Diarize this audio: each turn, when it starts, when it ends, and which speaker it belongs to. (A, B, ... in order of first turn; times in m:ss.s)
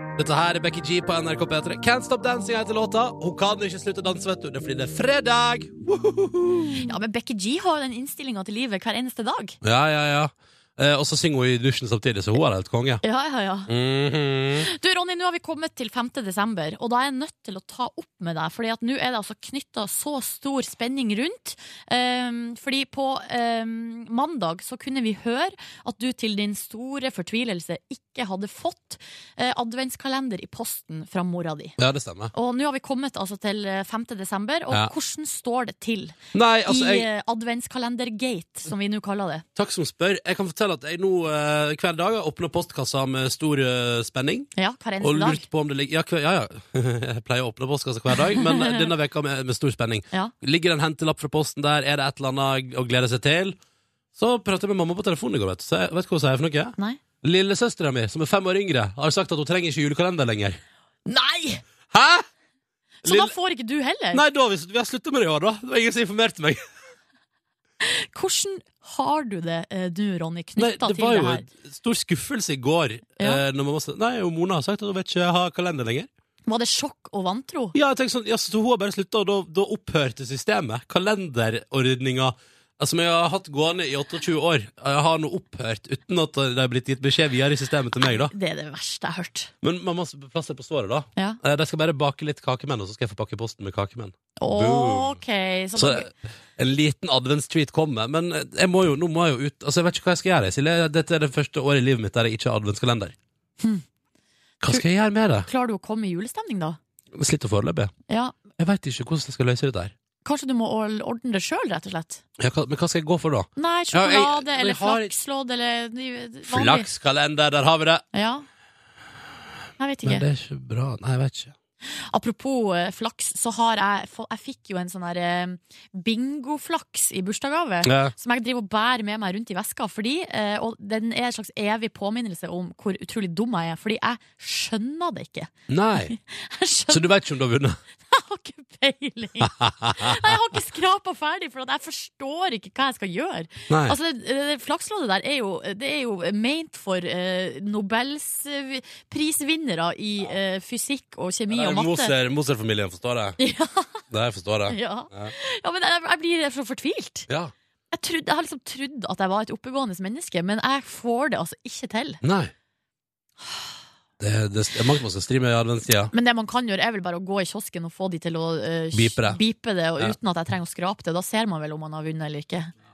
0:00.2-0:06.8 A
0:06.8-0:09.6 B
0:09.6-0:13.0 A
0:13.0-0:13.7 B
0:13.7-0:14.7 A
0:14.6-0:31.8 B
0:31.8-0:32.3 A
0:32.3-0:39.4 B
0:36.3-0:37.1 A
0:39.6-0:53.6 A
0:44.6-0:45.5 B
0:48.3-0:48.9 B
0:54.2-1:00.6 A
1:01.1-1:01.6 B
1:01.9-1:02.3 A
1:03.0-1:04.2 B
1:03.0-1:03.3 A
1:04.1-1:06.6 A
1:07.8-1:11.4 B
1:10.6-1:16.1 A
1:16.5-1:17.8 B
1:17.7-1:28.3 A
1:28.0-1:29.5 B
1:29.6-1:35.2 A
1:34.4-1:36.1 B
1:35.8-1:43.2 A
1:44.6-1:45.5 A
1:45.5-1:46.8 B
1:47.1-1:47.9 A
1:48.1-1:48.4 B
1:48.6-1:49.9 A
1:50.2-1:52.2 B
1:52.4-1:55.1 A
1:53.6-1:56.9 B
1:56.4-1:58.0 A
1:58.1-1:58.4 B
1:59.8-2:00.2 B
2:00.0-2:01.6 A
2:02.1-2:17.1 B
2:07.8-2:08.1 A
2:15.7-2:16.2 A
2:16.9-2:17.8 A
2:18.1-2:32.1 B
2:19.5-2:20.3 A
2:23.7-2:24.0 A
2:31.5-2:33.4 A
2:33.4-2:34.0 B
2:34.1-2:35.3 A
2:34.7-2:37.3 B
2:37.3-2:37.5 A
2:37.9-2:42.2 B
2:42.2-2:42.5 A
2:44.2-2:46.1 A
2:46.1-2:52.7 B
2:48.9-2:49.4 A